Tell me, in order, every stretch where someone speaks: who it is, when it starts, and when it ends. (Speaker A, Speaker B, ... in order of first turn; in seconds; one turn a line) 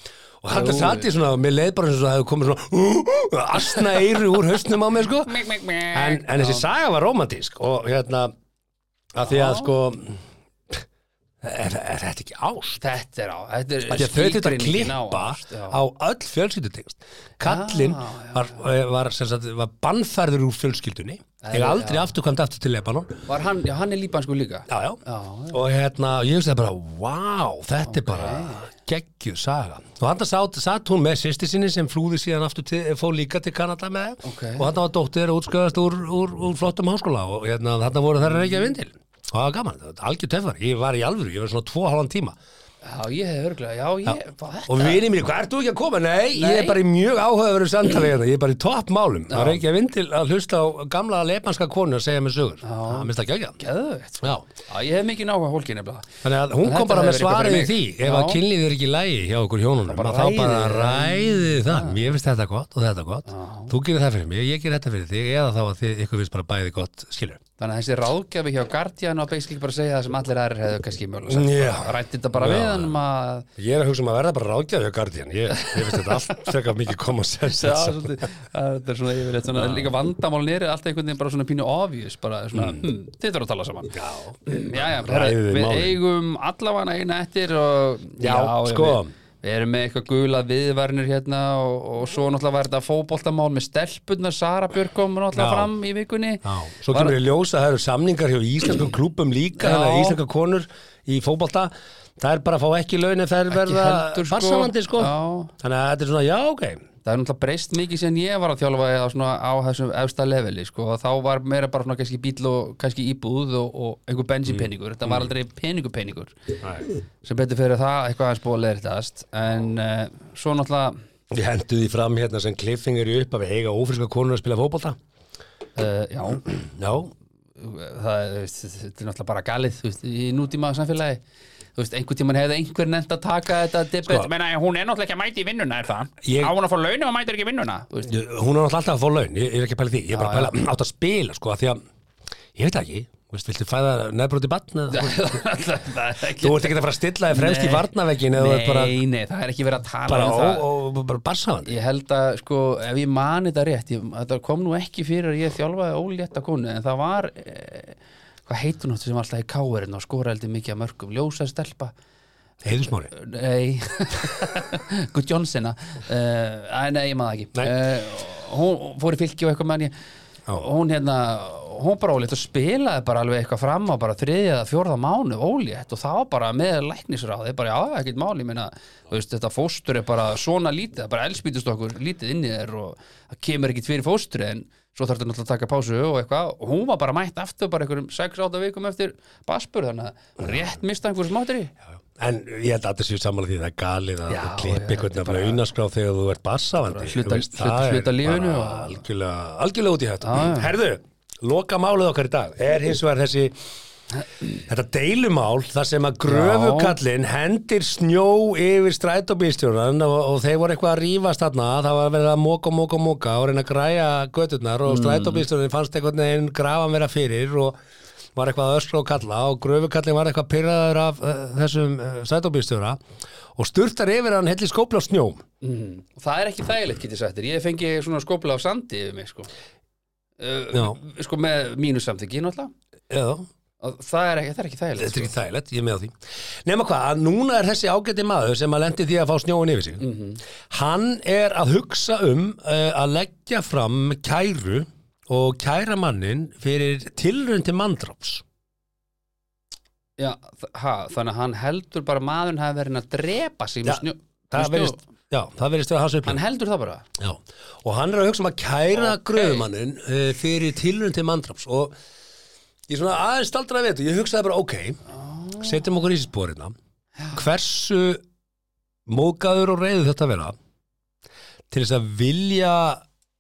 Speaker A: 0.4-5.4
Speaker B: 0.5-1.1
Speaker B: 5.3-6.7
Speaker A: 5.9-8.3
Speaker A: 9.1-10.8
Speaker B: 9.2-9.7
Speaker A: 11.4-12.8
Speaker B: 12.8-15.8
Speaker A: 13.9-23.2
Speaker B: 17.4-18.6
Speaker B: 21.4-22.1
Speaker B: 23.3-25.6
Speaker A: 24.7-42.4
Speaker B: 27.9-28.7
Speaker B: 34.2-34.7
Speaker B: 38.2-38.7
Speaker B: 42.8-45.0
Speaker A: 44.1-53.6
Speaker B: 46.4-46.8
Speaker B: 49.3-49.6
Speaker B: 52.6-56.1
Speaker A: 56.2-67.4
Speaker B: 56.6-58.4
Speaker B: 59.9-62.0
Speaker B: 63.3-63.7
Speaker B: 67.6-73.5
Speaker A: 71.3-73.0
Speaker A: 73.6-78.1
Speaker B: 75.6-76.5
Speaker B: 77.6-97.2
Speaker A: 79.5-79.9
Speaker A: 82.5-82.8
Speaker A: 83.9-86.0
Speaker A: 88.2-89.1
Speaker A: 95.3-95.7
Speaker A: 96.4-106.8
Speaker B: 99.6-100.2
Speaker B: 103.5-105.5
Speaker B: 107.0-116.3
Speaker A: 114.5-115.3
Speaker A: 116.6-116.9
Speaker B: 117.2-121.0
Speaker A: 121.3-125.0
Speaker B: 125.8-126.4
Speaker A: 126.5-127.1
Speaker B: 127.6-131.2
Speaker B: 131.8-138.1
Speaker A: 136.2-136.5
Speaker A: 138.1-141.8
Speaker B: 140.1-140.6
Speaker A: 142.6-145.4
Speaker B: 144.9-146.8
Speaker A: 146.4-148.9
Speaker B: 147.3-150.7
Speaker A: 150.1-151.8
Speaker B: 151.7-161.9
Speaker A: 162.6-163.1
Speaker B: 163.1-169.9
Speaker B: 170.6-191.7
Speaker A: 192.2-203.6
Speaker B: 194.3-195.6
Speaker B: 196.9-199.0
Speaker B: 200.2-200.7
Speaker A: 204.7-217.8
Speaker B: 206.3-207.0
Speaker B: 214.8-215.4
Speaker A: 218.3-223.0
Speaker A: 223.6-225.4
Speaker B: 225.6-229.5
Speaker B: 230.4-232.7
Speaker A: 230.7-231.0
Speaker A: 233.1-233.5
Speaker B: 233.8-235.3
Speaker A: 235.0-240.1
Speaker B: 240.0-240.4
Speaker A: 240.7-248.4
Speaker B: 250.2-255.0
Speaker A: 253.9-256.4
Speaker B: 256.2-257.1
Speaker A: 257.2-261.9
Speaker B: 258.9-259.7
Speaker A: 262.9-265.0
Speaker B: 265.2-265.6
Speaker A: 265.6-266.7
Speaker A: 267.3-268.2
Speaker A: 269.1-270.6
Speaker A: 271.7-273.0